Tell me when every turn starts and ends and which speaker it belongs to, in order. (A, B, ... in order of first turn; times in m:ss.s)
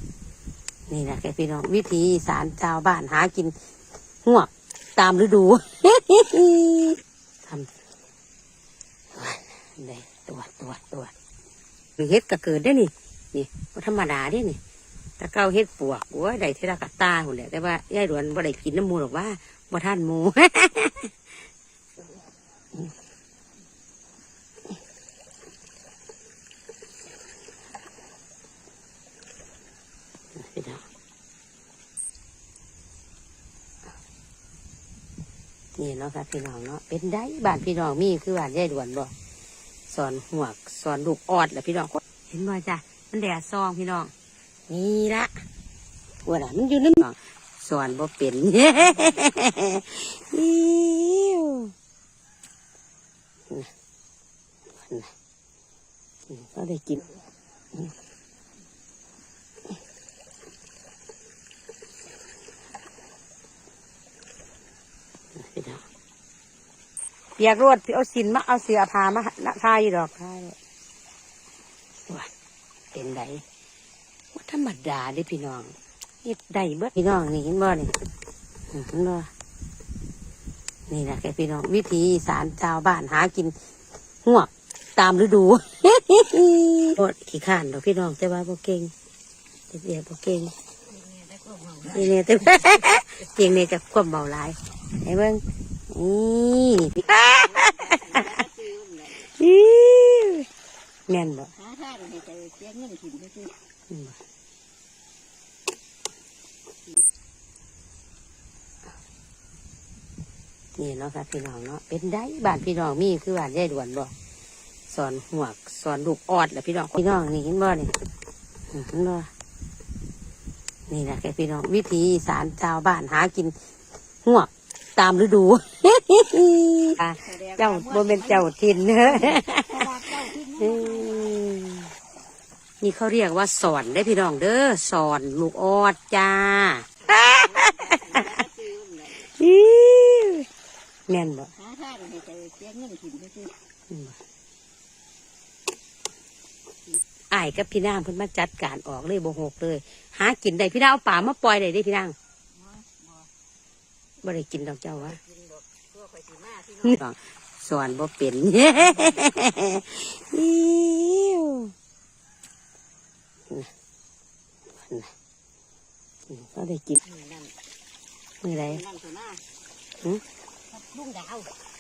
0:00.9-0:03.6 A
0:04.2-0:07.7 A
0:09.1-0:11.1 A
0:12.0-0:14.6 A
0:15.2-0:21.1 A
0:30.4-0:30.8 A
0:35.8-0:39.1 A
0:39.9-0:44.1 A
0:44.7-0:45.3 A
0:46.3-0:51.7 A
0:54.8-0:55.1 A
0:56.3-0:57.0 A
1:05.4-1:05.8 A
1:07.4-1:10.6 A
1:12.0-1:12.3 A
1:12.9-1:13.4 A
1:14.3-1:17.9 A
1:18.7-1:19.3 A
1:20.9-1:23.6 A
1:24.2-1:28.9 A
1:29.7-1:30.5 A
1:30.9-1:32.0 B
1:31.9-1:37.7 A
1:37.1-1:39.1 B
1:39.3-1:40.5 A
1:41.1-1:41.5 A
1:41.6-1:43.5 B
1:43.9-1:44.2 A
1:50.8-1:54.1 A
1:54.9-1:57.9 A
1:58.7-1:59.3 A
2:00.9-2:03.6 A
2:04.2-2:09.9 A
2:07.2-2:08.4 B
2:09.1-2:11.3 B
2:10.6-2:11.9 A
2:12.8-2:17.5 A
2:17.1-2:19.1 B
2:19.3-2:20.5 A
2:21.1-2:21.5 A
2:21.6-2:23.5 B
2:23.9-2:24.2 A
2:27.3-2:32.2 A
2:32.6-2:33.3 B
2:34.2-2:35.2 A
2:35.1-2:37.0 B
2:36.8-2:41.7 A
2:44.7-2:45.1 A
2:46.3-2:47.0 A
2:47.0-2:47.5 B
2:48.4-2:48.8 A
2:48.7-2:49.4 B
2:50.7-2:51.5 B